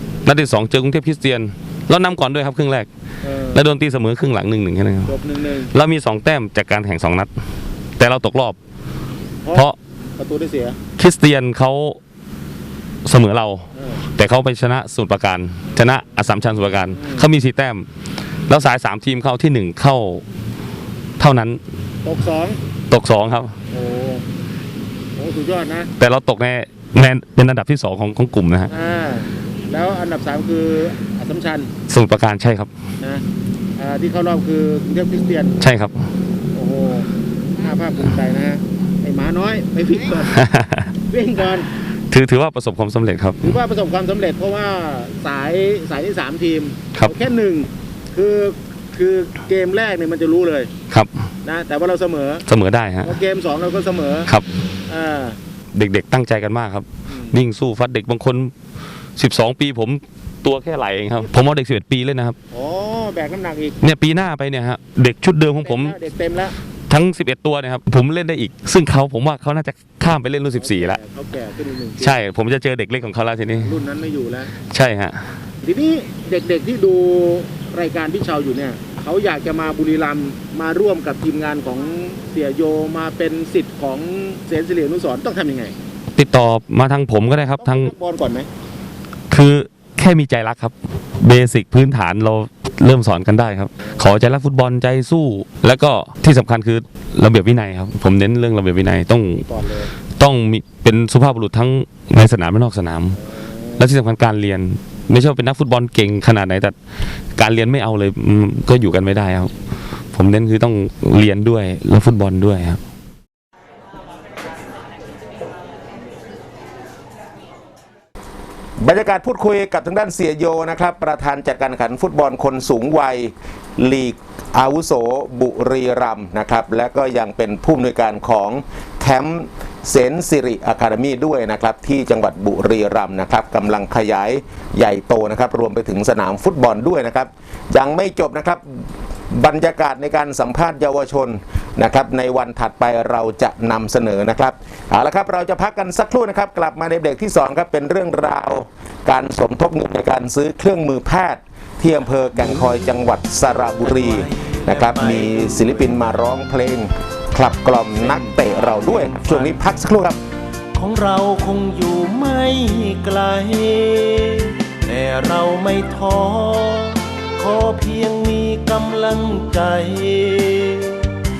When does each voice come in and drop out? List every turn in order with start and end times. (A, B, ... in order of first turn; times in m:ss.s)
0:00.2-0:02.9 A
0:03.2-0:03.6 B
0:03.5-0:07.3 A
0:05.1-0:05.6 B
0:08.0-0:08.6 A
0:10.2-0:10.8 B
0:10.3-0:10.6 C
0:11.0-0:12.0 A
0:13.0-0:17.9 A
0:13.8-0:14.0 B
0:16.9-0:17.3 B
0:18.5-0:20.2 A
0:21.2-0:21.6 A
0:22.0-0:22.6 B
0:22.1-0:22.5 C
0:22.9-0:23.6 A
0:23.7-0:24.2 B
0:25.2-0:25.9 B
0:26.0-0:28.7 A
0:28.7-0:31.7 B
0:31.0-0:31.7 C
0:31.9-0:32.7 A
0:33.8-0:35.6 B
0:33.9-0:35.2 C
0:35.6-0:36.1 A
0:36.5-0:37.1 B
0:37.6-0:40.3 B
0:40.3-0:40.9 A
0:41.1-0:41.7 B
0:42.1-0:43.6 A
0:43.4-0:44.9 C
0:43.5-0:46.5 B
0:45.7-0:47.7 C
0:47.0-0:47.5 B
0:48.2-0:50.7 B
0:49.0-0:49.4 C
0:50.0-0:50.5 C
0:50.9-0:51.3 A
0:51.4-0:52.4 B
0:51.7-0:52.2 C
0:52.4-0:53.2 A
0:53.0-0:54.3 B
0:54.9-0:55.4 B
0:55.7-0:58.5 A
0:57.1-0:57.4 B
0:59.2-1:02.4 A
1:02.5-1:03.8 B
1:03.8-1:06.0 A
1:05.6-1:06.5 B
1:05.8-1:06.5 C
1:06.9-1:11.0 A
1:10.5-1:12.1 B
1:12.0-1:13.8 A
1:13.7-1:14.5 B
1:14.6-1:15.2 A
1:15.6-1:25.7 B
1:16.9-1:18.1 C
1:18.7-1:19.0 C
1:20.1-1:20.5 C
1:21.4-1:21.8 C
1:22.7-1:23.0 C
1:24.4-1:24.8 C
1:26.1-1:27.9 A
1:27.6-1:28.5 B
1:29.3-1:39.5 A
1:40.2-1:46.7 A
1:43.4-1:43.8 B
1:47.4-1:49.5 A
1:50.1-1:52.8 A
1:58.8-2:18.8 C
2:19.3-2:40.2 C
2:32.3-2:32.9 D
2:33.7-2:36.1 D
2:37.9-2:39.7 D
2:40.7-2:51.1 D